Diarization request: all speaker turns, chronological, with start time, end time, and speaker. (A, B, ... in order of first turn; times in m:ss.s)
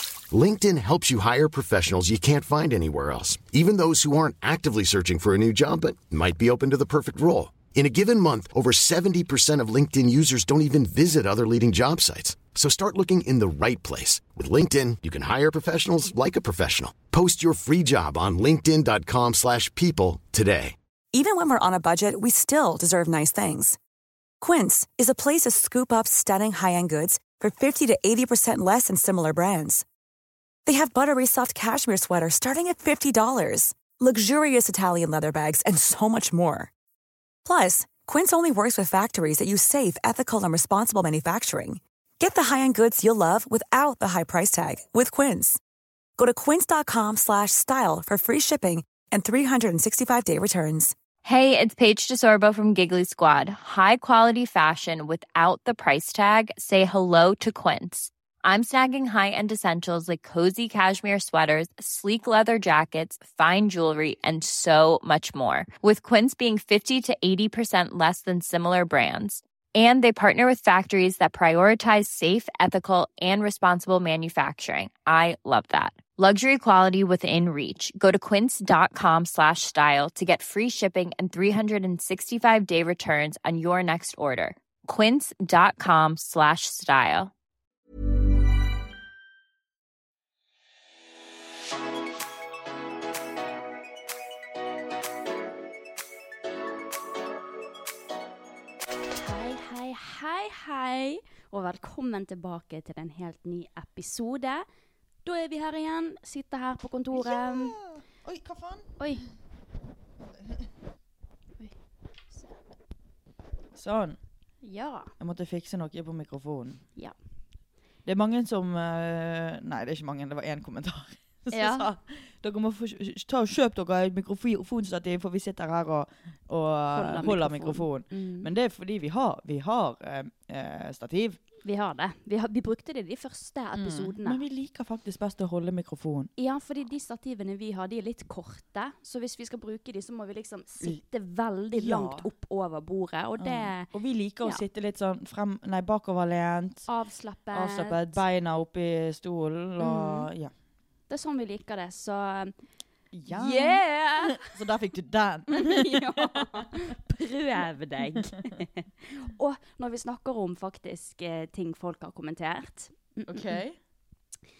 0:00.3-0:20.7 A
0:21.1-0:23.8 B
0:24.4-0:29.8 B
0:30.6-0:36.7 B
0:37.4-0:45.6 B
0:46.2-0:50.9 B
0:51.2-1:27.3 C
1:39.2-1:44.6 D
1:45.2-1:47.8 D
1:47.1-1:49.0 E
1:49.0-1:49.2 D
1:53.7-1:54.2 E
1:54.6-1:55.1 D
1:55.2-1:56.8 E
1:58.0-2:11.4 E
2:01.5-2:01.9 D
2:06.9-2:08.5 D
2:11.6-2:14.4 D
2:13.8-2:16.3 E
2:16.4-2:23.9 D
2:21.7-2:22.3 E
2:23.4-2:26.9 E
2:26.9-2:28.2 D
2:27.5-2:30.5 E
2:29.8-2:30.3 D
2:31.1-2:32.5 D
2:33.1-2:36.6 E
2:33.3-2:34.5 D
2:35.5-2:43.6 D
2:43.2-2:43.8 E